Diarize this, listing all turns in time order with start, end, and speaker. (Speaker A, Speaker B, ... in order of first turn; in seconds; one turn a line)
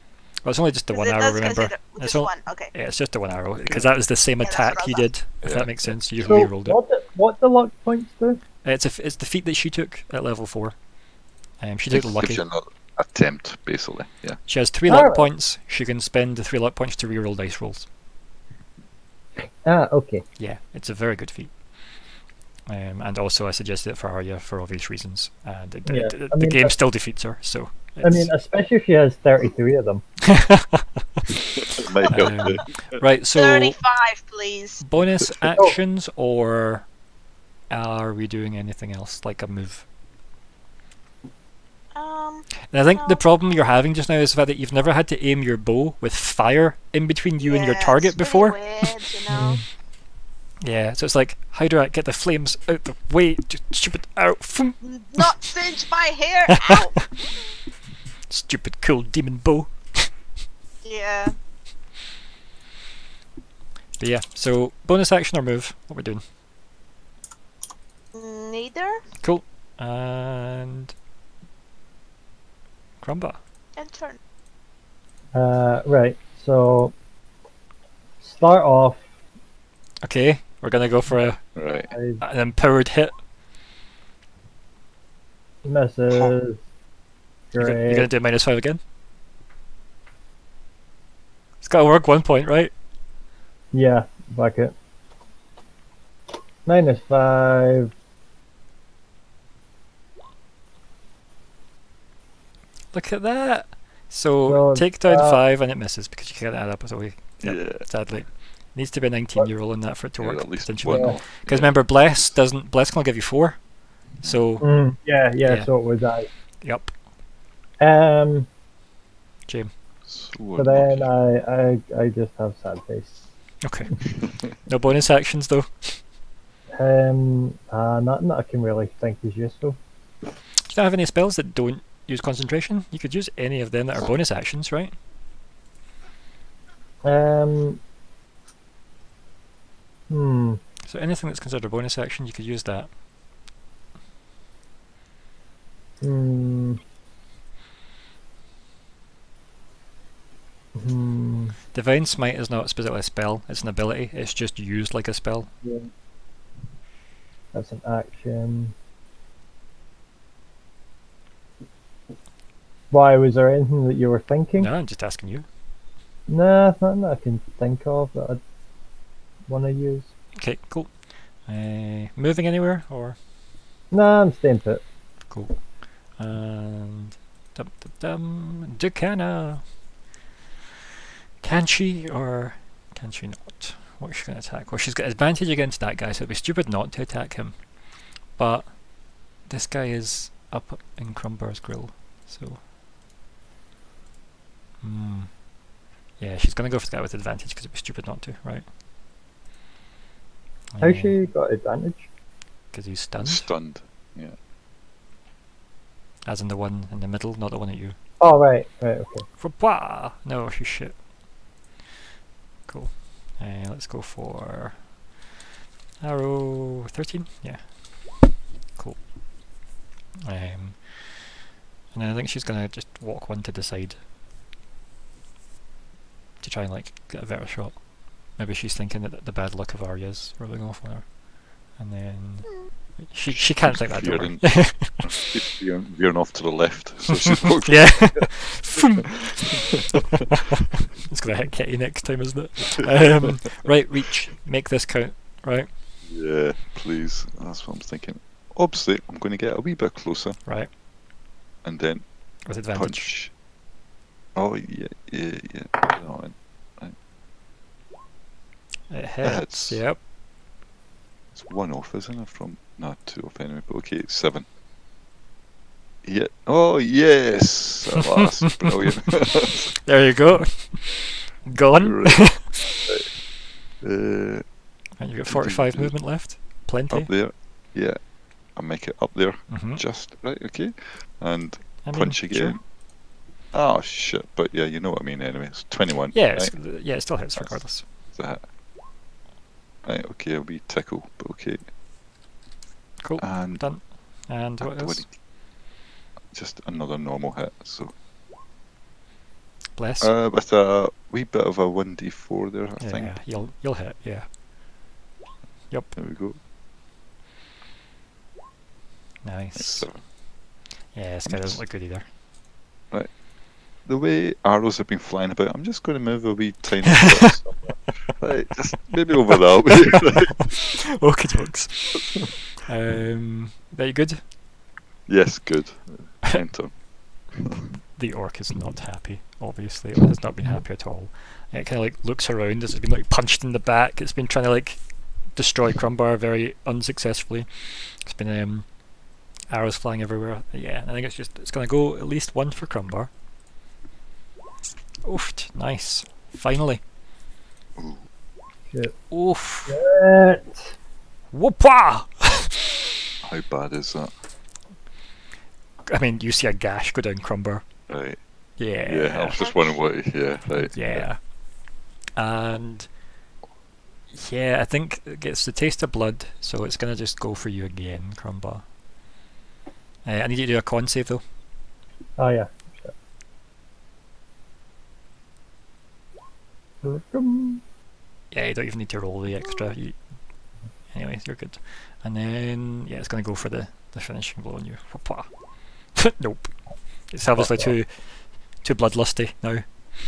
Speaker A: 0.4-6.8
Speaker B: 0.9-2.7
Speaker C: 3.6-3.9
Speaker B: 4.4-5.0
Speaker C: 5.4-6.4
Speaker D: 6.2-8.4
Speaker A: 8.6-10.8
Speaker A: 11.6-12.4
Speaker C: 11.9-14.4
Speaker A: 14.4-17.9
Speaker D: 14.9-15.2
Speaker D: 19.6-20.2
Speaker A: 20.4-21.5
Speaker A: 22.7-28.3
Speaker D: 25.9-26.7
Speaker D: 28.0-30.0
Speaker A: 30.2-31.4
Speaker C: 31.7-32.8
Speaker B: 32.1-32.5
Speaker A: 32.1-33.8
Speaker B: 33.3-34.8
Speaker A: 34.8-36.9
Speaker A: 37.7-39.9
Speaker B: 41.9-43.6
Speaker A: 42.7-48.9
Speaker B: 47.4-49.6
Speaker D: 49.3-49.6
Speaker A: 50.6-55.3
Speaker B: 54.8-57.2
Speaker A: 56.5-57.1
Speaker A: 58.3-60.1
Speaker B: 60.8-61.3
Speaker A: 64.0-66.2
Speaker B: 68.1-69.0
Speaker A: 69.2-70.9
Speaker A: 73.0-73.4
Speaker B: 73.8-74.2
Speaker D: 75.3-76.9
Speaker D: 78.2-79.0
Speaker A: 80.0-81.5
Speaker C: 81.5-81.9
Speaker D: 81.9-82.2
Speaker A: 82.2-83.1
Speaker D: 85.6-86.6
Speaker D: 87.5-88.1
Speaker A: 87.6-88.8
Speaker A: 91.6-92.7
Speaker D: 93.7-94.7
Speaker D: 96.7-97.9
Speaker A: 102.9-113.6
Speaker D: 104.5-105.4
Speaker C: 107.4-107.8
Speaker C: 110.2-112.2
Speaker D: 110.9-111.2
Speaker A: 114.2-114.7
Speaker D: 114.6-116.3
Speaker A: 115.4-115.7
Speaker A: 116.6-116.9
Speaker D: 117.8-118.5
Speaker C: 120.0-121.1
Speaker D: 120.5-123.2
Speaker A: 123.6-123.9
Speaker A: 124.7-126.0
Speaker D: 126.7-129.8
Speaker A: 130.7-134.9
Speaker D: 137.0-137.8
Speaker D: 140.1-140.6
Speaker A: 140.8-142.9
Speaker D: 146.0-146.8
Speaker D: 150.7-151.6
Speaker A: 151.7-155.5
Speaker D: 155.6-155.9
Speaker D: 157.5-158.7
Speaker D: 162.9-164.7
Speaker A: 164.6-165.4
Speaker D: 166.3-168.4
Speaker D: 169.5-170.1
Speaker A: 170.4-170.9
Speaker A: 171.5-173.2
Speaker D: 173.9-174.8
Speaker A: 175.3-175.6
Speaker A: 176.2-179.7
Speaker A: 181.4-187.6
Speaker A: 188.3-188.8
Speaker A: 189.4-192.6
Speaker A: 194.8-195.4
Speaker A: 196.2-198.7
Speaker A: 200.7-201.2
Speaker D: 200.8-202.1
Speaker A: 202.7-203.5
Speaker C: 203.2-204.3
Speaker A: 206.2-207.9
Speaker D: 208.2-209.2
Speaker A: 209.4-211.0
Speaker A: 212.7-214.9
Speaker A: 216.0-217.7
Speaker A: 218.8-219.0
Speaker A: 220.2-221.3
Speaker A: 221.9-224.0
Speaker A: 226.4-231.1
Speaker A: 231.7-235.1
Speaker C: 233.3-239.6
Speaker A: 237.4-245.7
Speaker C: 246.1-250.4
Speaker A: 250.4-250.7
Speaker C: 251.6-253.3
Speaker A: 252.4-253.1
Speaker C: 254.3-256.9
Speaker A: 258.9-260.0
Speaker C: 259.2-259.8
Speaker C: 261.3-264.5
Speaker C: 266.0-269.8
Speaker A: 268.5-269.1
Speaker A: 269.8-272.6
Speaker C: 271.8-273.1
Speaker C: 273.8-274.4
Speaker A: 275.0-277.1
Speaker C: 275.3-275.9
Speaker C: 276.9-282.6
Speaker A: 279.5-279.8
Speaker A: 281.8-282.6
Speaker C: 283.5-288.4
Speaker A: 286.1-287.8
Speaker C: 289.8-291.6
Speaker A: 293.0-295.1
Speaker C: 293.2-293.7
Speaker C: 294.6-295.1
Speaker C: 296.3-297.9
Speaker A: 299.8-300.1
Speaker C: 300.0-303.5
Speaker A: 302.8-304.3
Speaker C: 305.9-306.4
Speaker A: 309.2-309.9
Speaker C: 309.5-310.0
Speaker A: 310.9-312.1
Speaker C: 311.3-311.6
Speaker C: 313.8-320.5
Speaker A: 319.9-324.2
Speaker C: 325.1-326.8
Speaker C: 327.3-327.6
Speaker A: 327.9-338.7
Speaker A: 339.5-343.1
Speaker A: 345.0-346.8
Speaker A: 349.1-349.7
Speaker D: 349.7-350.7
Speaker A: 351.3-352.7
Speaker C: 353.2-354.1
Speaker A: 355.9-357.6
Speaker C: 357.9-358.2
Speaker A: 358.6-359.4
Speaker C: 358.8-361.1
Speaker B: 359.4-359.8
Speaker A: 360.6-361.3
Speaker A: 362.1-362.9
Speaker A: 364.1-368.6
Speaker A: 370.0-371.2
Speaker D: 372.2-372.9
Speaker D: 376.8-377.6
Speaker A: 378.3-380.0
Speaker A: 380.9-385.3
Speaker A: 385.8-386.5
Speaker A: 387.1-389.6
Speaker D: 387.4-387.7